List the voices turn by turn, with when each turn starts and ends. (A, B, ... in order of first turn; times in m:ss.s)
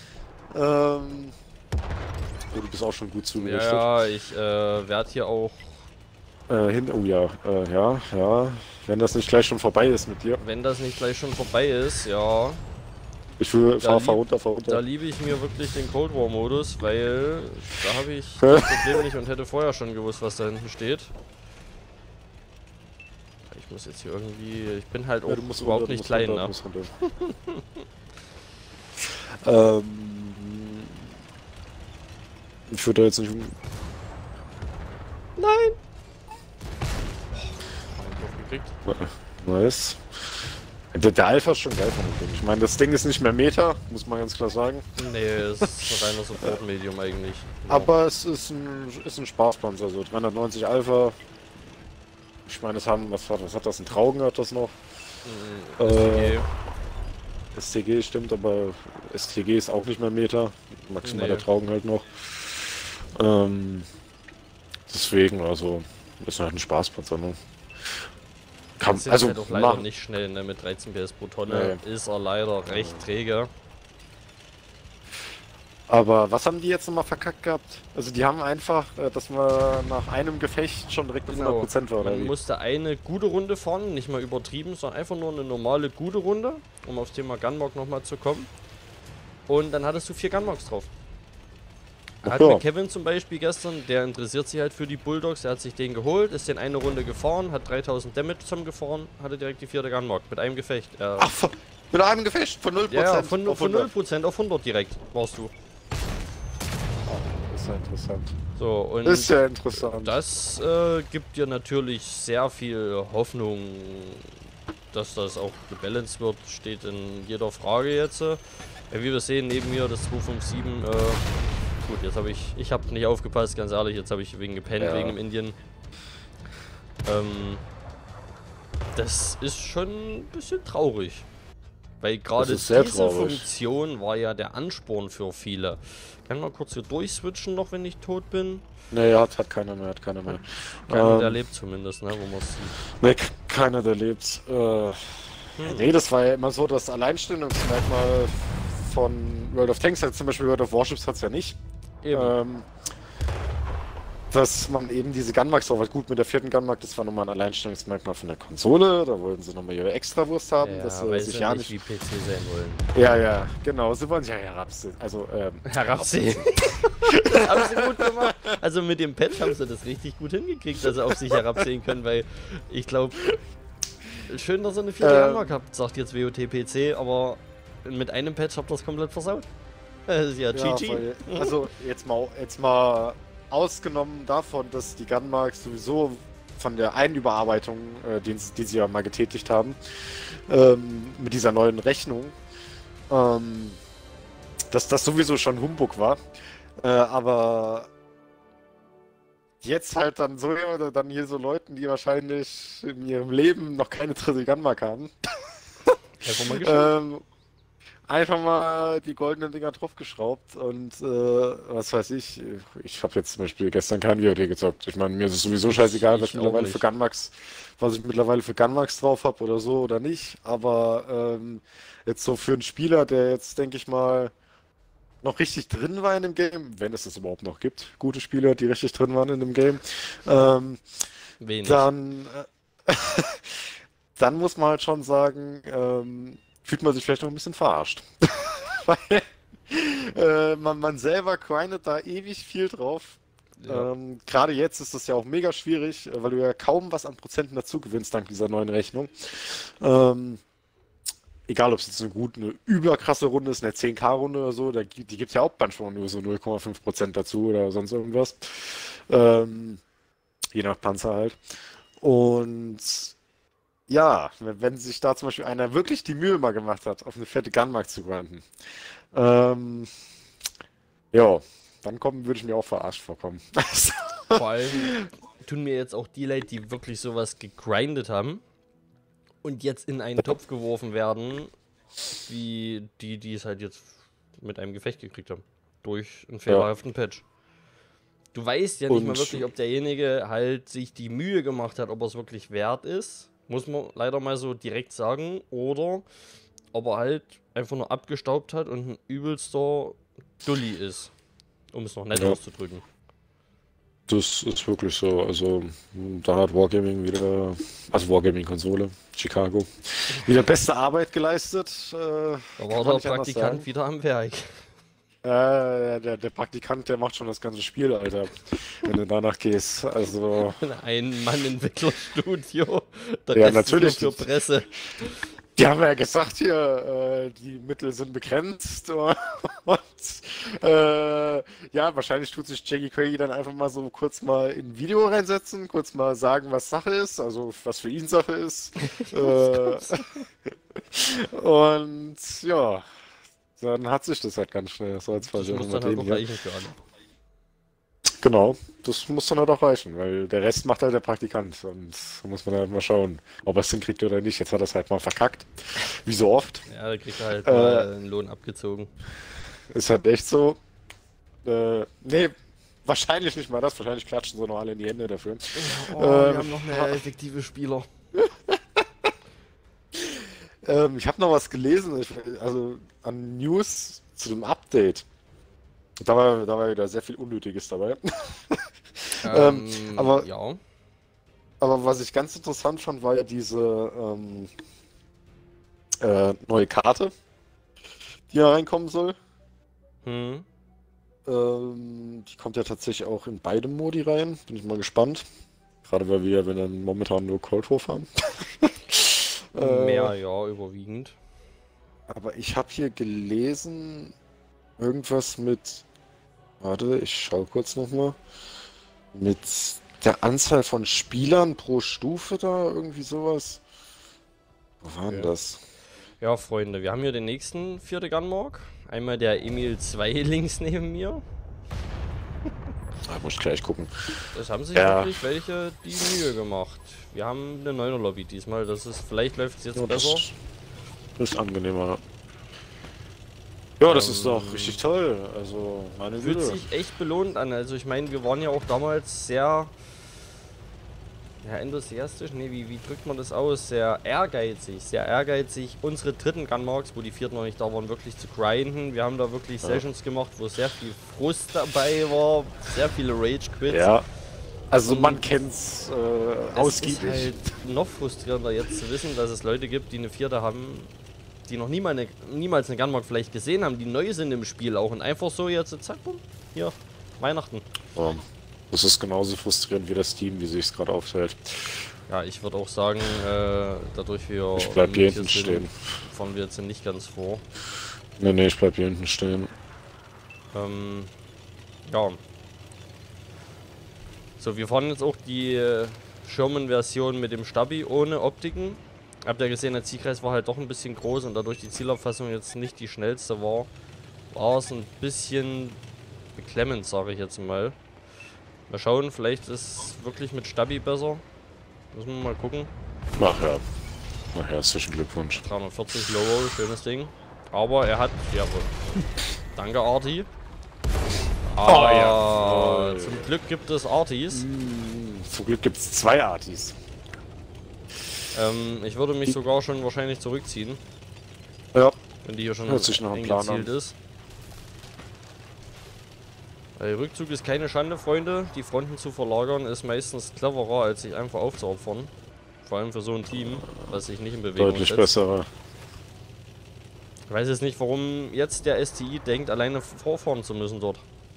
0:00.5-0:01.4 A
0:02.5-0:03.9 A
0:03.4-0:05.8 B
0:06.5-0:10.4 A
0:10.4-0:12.6 B
0:13.4-0:14.8 A
0:13.8-0:21.1 B
0:18.4-0:19.0 A
0:23.5-0:27.8 B
0:25.3-0:26.9 A
0:29.0-0:31.1 A
0:32.7-0:33.6 A
0:35.4-0:35.8 B
0:38.0-0:38.8 B
0:38.8-0:40.0 A
0:40.9-0:44.9 A
0:45.0-0:47.9 B
0:45.6-0:45.9 A
0:47.7-0:51.2 A
0:52.4-0:54.8 A
0:55.2-0:56.5 B
0:55.8-0:56.4 A
0:57.5-1:03.9 A
1:01.0-1:01.5 B
1:04.9-1:08.1 A
1:08.8-1:09.8 A
1:08.9-1:13.5 B
1:11.5-1:11.8 A
1:12.7-1:13.0 A
1:15.9-1:22.3 A
1:21.3-1:28.5 B
1:29.5-1:30.9 B
1:32.2-1:32.6 A
1:32.2-1:41.3 B
1:41.2-1:43.9 A
1:42.9-1:45.5 B
1:47.1-1:48.4 A
1:48.6-1:54.3 B
1:49.0-1:50.2 A
1:54.9-1:58.4 B
1:58.9-2:01.3 B
2:01.8-2:05.6 B
2:04.8-2:05.2 A
2:07.0-2:07.6 B
2:09.0-2:11.3 B
2:12.0-2:18.7 B
2:12.4-2:13.5 A
2:18.9-2:21.4 A
2:20.3-2:22.8 B
2:23.0-2:31.6 A
2:25.6-2:25.9 B
2:32.0-2:32.4 B
2:32.1-2:32.7 A
2:34.3-2:41.8 A
2:40.6-2:43.2 B
2:42.9-2:48.5 A
2:45.6-2:53.3 B
2:50.8-2:51.7 A
2:54.3-2:59.5 B
2:55.0-2:55.6 A
3:00.1-3:01.7 B
3:00.5-3:12.4 A
3:13.1-3:13.8 A
3:14.7-3:16.2 A
3:16.8-3:17.9 A
3:19.6-3:26.0 A
3:26.2-3:26.9 B
3:26.5-3:27.2 A
3:28.1-3:44.3 A
3:35.7-3:36.8 B
3:45.2-3:50.8 A
3:51.4-3:51.9 B
3:51.6-4:10.4 A
4:03.6-4:03.9 B
4:11.5-4:19.8 A
4:20.5-4:23.1 A
4:23.9-4:28.5 A
4:29.1-4:29.9 A
4:31.1-4:35.1 A
4:34.3-4:38.4 B
4:39.4-4:41.5 B
4:42.2-4:47.2 B
4:48.3-4:56.1 B
4:48.9-4:49.5 A
4:56.7-5:01.1 B
5:01.7-5:02.8 B
5:02.1-5:02.4 A
5:04.1-5:13.7 A
5:10.1-5:10.4 B
5:12.6-5:14.7 B
5:15.2-5:20.6 A
5:20.6-5:25.1 B
5:23.4-5:24.3 A
5:25.6-5:42.9 A
5:38.8-5:40.3 B
5:43.6-5:46.2 A
5:45.2-5:46.8 B
5:48.2-5:56.6 A
5:56.7-5:58.9 B
5:57.4-5:57.9 A
5:59.7-6:00.6 A
6:01.4-6:02.3 A
6:02.8-6:07.0 A
6:05.5-6:07.9 B
6:08.2-6:09.1 A
6:10.0-6:15.0 A
6:16.0-6:20.3 A
6:19.2-6:20.6 B
6:21.6-6:24.5 A
6:26.0-6:27.1 A
6:28.3-6:29.2 A
6:30.0-6:30.5 B
6:31.3-6:35.3 A
6:35.8-6:40.2 A
6:39.6-6:41.2 B
6:42.1-6:44.1 A
6:44.8-6:45.8 A
6:46.6-6:48.2 A
6:49.1-6:53.6 A
6:54.8-6:55.6 A
6:55.1-6:55.3 B
6:56.2-7:01.2 B
7:03.1-7:04.2 A
7:04.3-7:10.2 B
7:04.7-7:05.2 A
7:09.8-7:10.4 A
7:11.2-7:12.0 A
7:13.8-7:16.6 A
7:13.8-7:14.8 B
7:16.2-7:19.7 B
7:21.4-7:33.9 B
7:33.7-7:34.0 A
7:34.7-7:37.4 A
7:34.8-7:35.3 B
7:36.6-7:40.9 B
7:41.5-7:47.7 B
7:48.0-7:51.9 A
7:52.1-7:57.4 B
7:54.6-7:55.7 A
7:58.2-7:59.5 A
8:00.5-8:01.1 B
8:01.8-8:02.2 B
8:04.4-8:13.7 B
8:14.3-8:15.8 B
8:16.4-8:17.8 B
8:18.7-8:21.2 B
8:21.9-8:22.7 B
8:23.2-8:23.6 A
8:24.3-8:25.4 A
8:25.4-8:28.7 B
8:29.6-8:30.3 B
8:31.5-8:34.4 B
8:31.7-8:33.3 A
8:34.3-8:36.8 A
8:38.3-8:40.8 B
8:42.2-8:44.0 B
8:42.7-8:43.7 A
8:46.8-8:52.1 B
8:52.6-8:55.1 B
8:54.6-8:55.5 A
8:57.3-9:01.0 B